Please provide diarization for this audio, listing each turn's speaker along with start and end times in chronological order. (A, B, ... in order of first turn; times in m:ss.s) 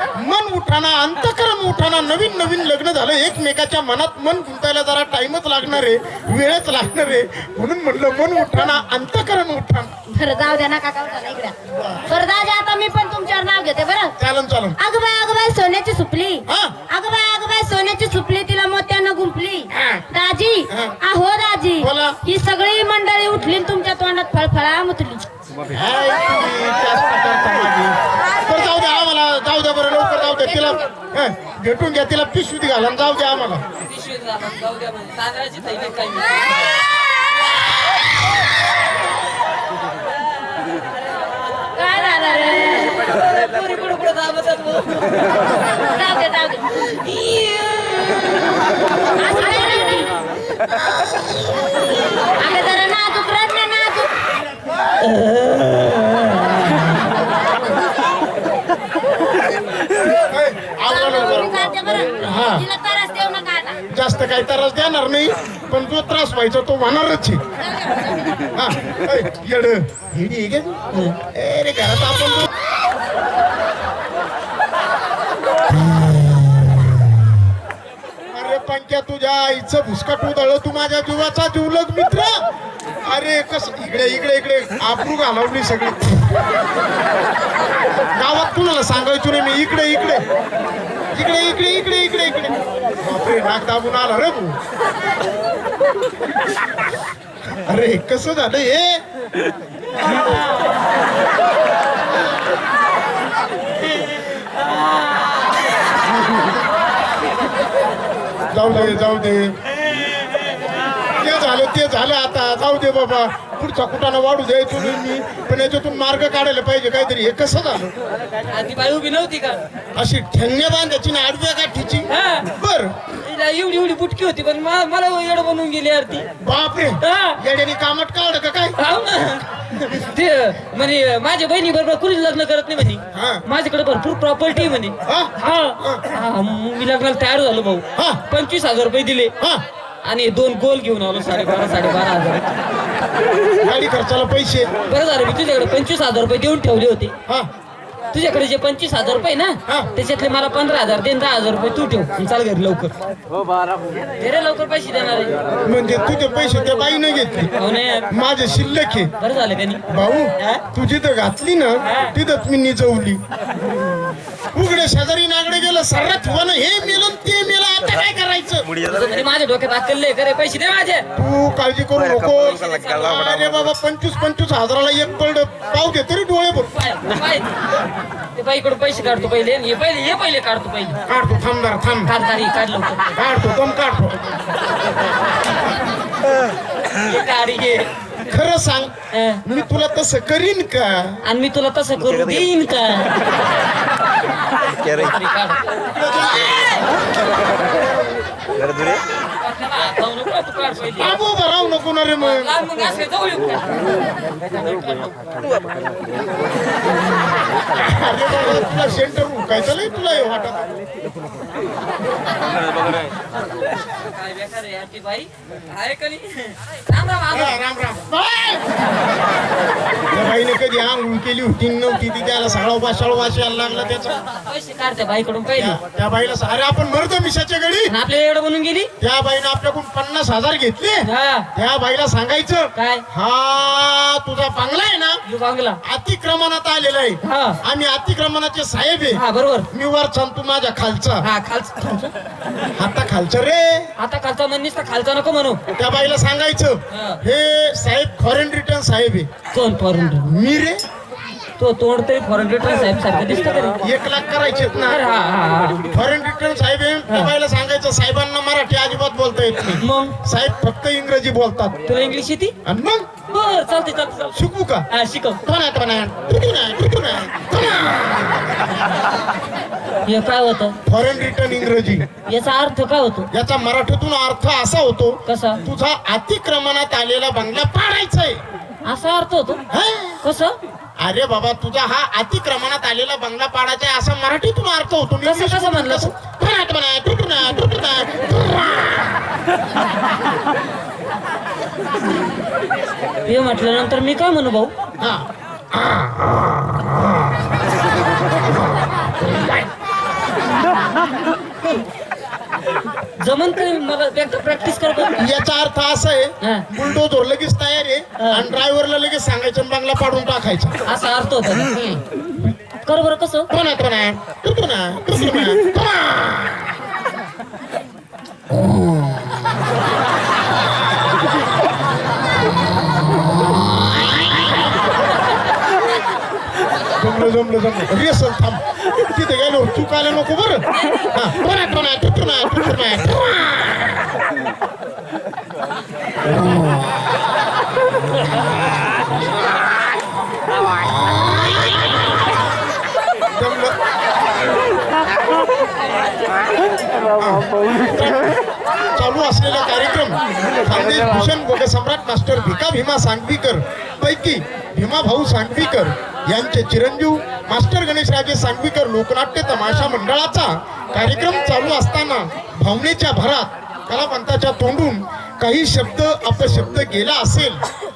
0:00.2-0:09.9 A
0:10.1-0:14.2 B
0:14.2-0:14.8 A
0:14.8-0:25.3 B
0:16.5-0:16.7 A
0:19.7-0:20.1 A
0:20.7-0:21.0 A
0:21.8-0:22.2 A
0:25.7-0:33.6 A
0:33.8-0:36.3 C
0:41.6-0:45.2 C
0:41.8-0:43.0 B
0:45.8-0:46.9 B
0:47.0-0:48.4 C
0:49.2-0:50.1 B
0:52.4-0:54.1 B
0:55.0-0:56.9 C
1:00.3-1:02.6 A
1:00.9-1:03.8 B
1:03.9-1:07.4 A
1:07.8-1:08.1 B
1:08.6-1:10.8 A
1:10.9-1:11.2 C
1:11.3-1:12.5 A
1:18.3-1:22.4 A
1:23.0-1:26.4 A
1:28.2-1:30.2 A
1:31.1-1:34.6 A
1:37.6-1:39.0 A
1:40.1-1:40.5 C
1:44.0-1:45.3 C
1:48.5-1:49.5 A
1:51.2-1:57.9 A
1:58.5-1:59.6 C
2:00.0-2:03.0 A
2:02.1-2:02.5 C
2:03.2-2:06.3 C
2:06.4-2:08.8 A
2:07.0-2:07.4 C
2:08.8-2:19.3 C
2:13.1-2:13.4 A
2:15.1-2:16.1 A
2:18.0-2:18.2 A
2:20.0-2:22.5 C
2:23.7-2:24.7 A
2:24.9-2:27.2 C
2:28.1-2:32.9 C
2:34.2-2:35.4 C
2:35.6-2:37.5 A
2:37.6-2:38.1 C
2:38.1-2:39.1 A
2:39.2-2:39.8 C
2:39.9-2:43.2 A
2:40.4-2:40.6 C
2:41.8-2:42.2 C
2:44.5-2:48.8 A
2:48.8-2:51.1 C
2:51.2-2:56.7 A
2:56.7-2:57.6 C
2:58.4-3:01.0 C
3:01.1-3:02.1 A
3:02.0-3:03.1 C
3:03.2-3:04.2 A
3:07.0-3:07.9 C
3:08.3-3:11.2 A
3:09.1-3:09.4 C
3:11.2-3:13.2 C
3:14.8-3:15.6 C
3:19.4-3:21.1 C
3:21.0-3:22.5 A
3:22.2-3:23.9 C
3:24.5-3:25.2 C
3:27.8-3:30.6 A
3:34.0-3:37.6 C
3:37.3-3:38.6 A
3:40.1-3:44.2 A
3:44.5-3:45.8 C
3:45.5-3:47.9 A
3:47.9-3:48.9 C
3:49.0-3:55.2 A
3:51.0-3:51.5 C
3:52.8-3:53.0 C
3:55.2-3:55.8 C
3:55.8-4:01.3 A
3:57.2-3:57.6 C
3:59.1-3:59.7 C
4:01.2-4:02.1 C
4:02.8-4:03.9 A
4:04.0-4:05.6 C
4:05.8-4:09.3 A
4:06.9-4:07.2 C
4:09.5-4:10.3 C
4:10.2-4:10.8 A
4:11.6-4:13.8 C
4:13.8-4:15.0 A
4:14.9-4:15.9 C
4:15.9-4:21.8 A
4:19.8-4:20.2 C
4:21.9-4:22.6 C
4:22.6-4:23.1 A
4:23.3-4:24.3 C
4:24.3-4:24.9 A
4:24.9-4:25.4 C
4:25.4-4:28.5 A
4:30.0-4:30.8 C
4:30.9-4:32.1 A
4:32.3-4:33.3 C
4:33.3-4:38.4 A
4:35.3-4:35.6 C
4:38.8-4:39.6 C
4:39.7-4:40.2 A
4:40.2-4:40.6 C
4:41.0-4:49.0 A
4:45.2-4:46.1 C
4:53.3-4:54.7 C
4:55.0-4:56.9 A
5:03.2-5:05.3 C
5:05.2-5:10.8 A
5:08.2-5:08.5 C
5:10.9-5:11.7 C
5:11.7-5:12.0 A
5:12.8-5:13.5 C
5:13.5-5:16.7 A
5:27.0-5:33.9 A
5:30.8-5:31.1 C
5:43.4-5:43.8 A
5:47.2-5:48.4 A
5:49.0-6:07.6 A